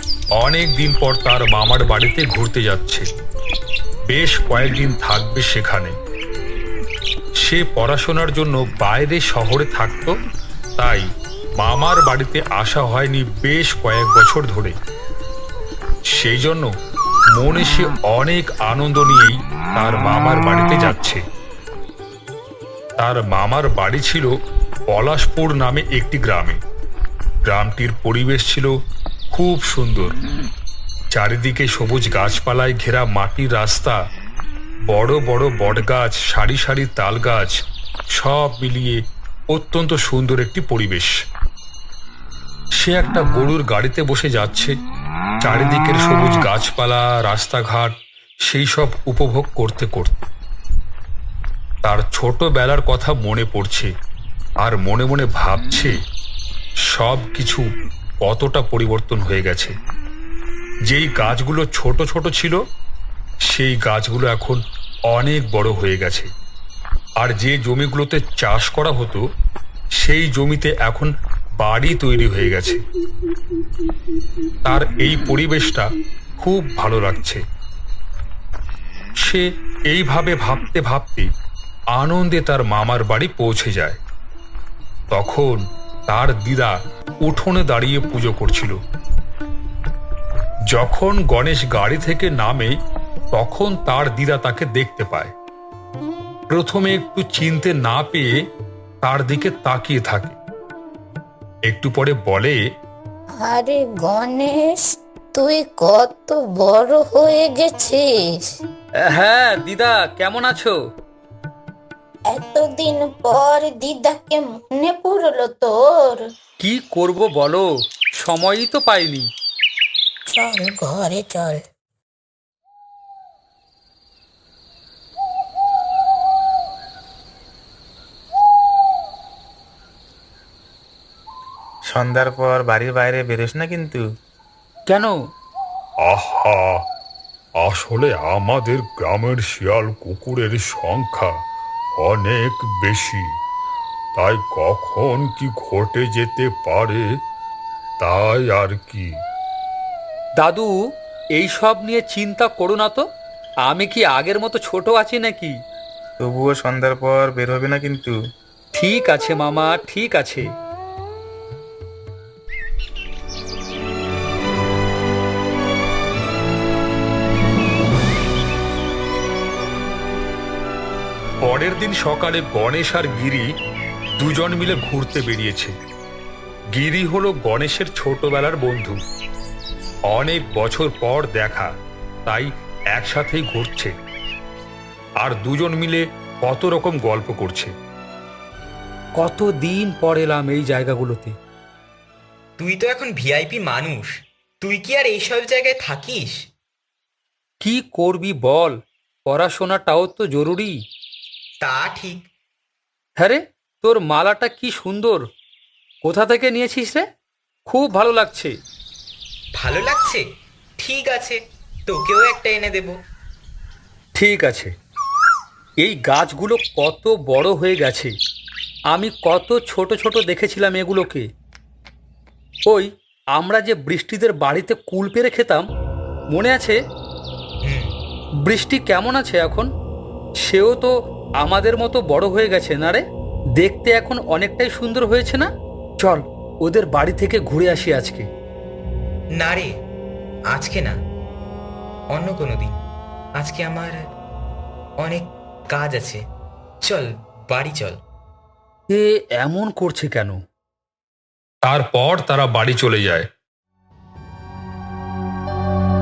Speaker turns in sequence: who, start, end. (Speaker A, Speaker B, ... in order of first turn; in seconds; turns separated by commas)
Speaker A: 0.3-3.1, Speaker A: 4.1-6.0, Speaker A: 7.4-10.2, Speaker A: 10.8-14.8, Speaker A: 16.1-16.7, Speaker A: 17.3-21.2, Speaker A: 23.0-24.3, Speaker A: 24.9-26.6, Speaker A: 27.4-28.8, Speaker A: 29.3-30.2, Speaker A: 31.1-34.0, Speaker A: 34.8-41.2, Speaker A: 42.8-44.7, Speaker A: 45.4-50.3, Speaker A: 51.8-53.9, Speaker A: 54.6-56.0, Speaker A: 56.8-57.7, Speaker A: 58.2-59.8, Speaker A: 60.8-62.6, Speaker A: 63.5-66.3, Speaker A: 67.2-69.3, Speaker A: 69.9-72.8, Speaker A: 74.6-77.4, Speaker A: 79.2-81.3, Speaker A: 81.9-84.0, Speaker A: 85.1-88.8, Speaker A: 90.7-92.8, Speaker A: 93.3-95.3, Speaker A: 96.5-98.4, Speaker A: 99.0-100.4, Speaker A: 101.7-102.6, Speaker B: 103.4-104.8, Speaker B: 105.3-108.0, Speaker C: 109.0-110.7, Speaker B: 112.3-116.2, Speaker C: 116.6-117.7, Speaker C: 118.2-119.3, Speaker B: 120.3-121.6, Speaker D: 131.9-134.0, Speaker C: 134.9-135.1, Speaker A: 136.0-136.8, Speaker A: 137.6-141.4, Speaker A: 142.0-143.4, Speaker A: 144.1-147.2, Speaker A: 148.0-149.2, Speaker C: 150.4-150.7, Speaker C: 151.3-153.0, Speaker C: 153.6-155.5, Speaker D: 156.2-158.1, Speaker C: 158.7-160.4, Speaker A: 171.4-173.5, Speaker A: 174.2-175.8, Speaker A: 176.7-179.0, Speaker A: 180.1-181.7, Speaker A: 182.2-183.9, Speaker A: 185.2-187.7, Speaker C: 189.2-191.3, Speaker E: 192.6-193.6, Speaker E: 194.7-196.1, Speaker C: 197.6-200.7, Speaker E: 201.6-201.9, Speaker C: 203.2-205.2, Speaker C: 206.0-207.0, Speaker C: 207.7-208.5, Speaker E: 209.6-210.2, Speaker E: 210.8-211.2, Speaker E: 212.0-212.4, Speaker A: 212.4-212.9, Speaker C: 214.1-214.7, Speaker C: 215.8-218.1, Speaker C: 218.9-221.2, Speaker C: 222.7-225.6, Speaker C: 226.3-226.8, Speaker C: 228.4-229.7, Speaker C: 230.4-233.0, Speaker C: 233.6-238.3, Speaker E: 242.1-242.6, Speaker C: 248.9-250.4, Speaker A: 251.6-253.3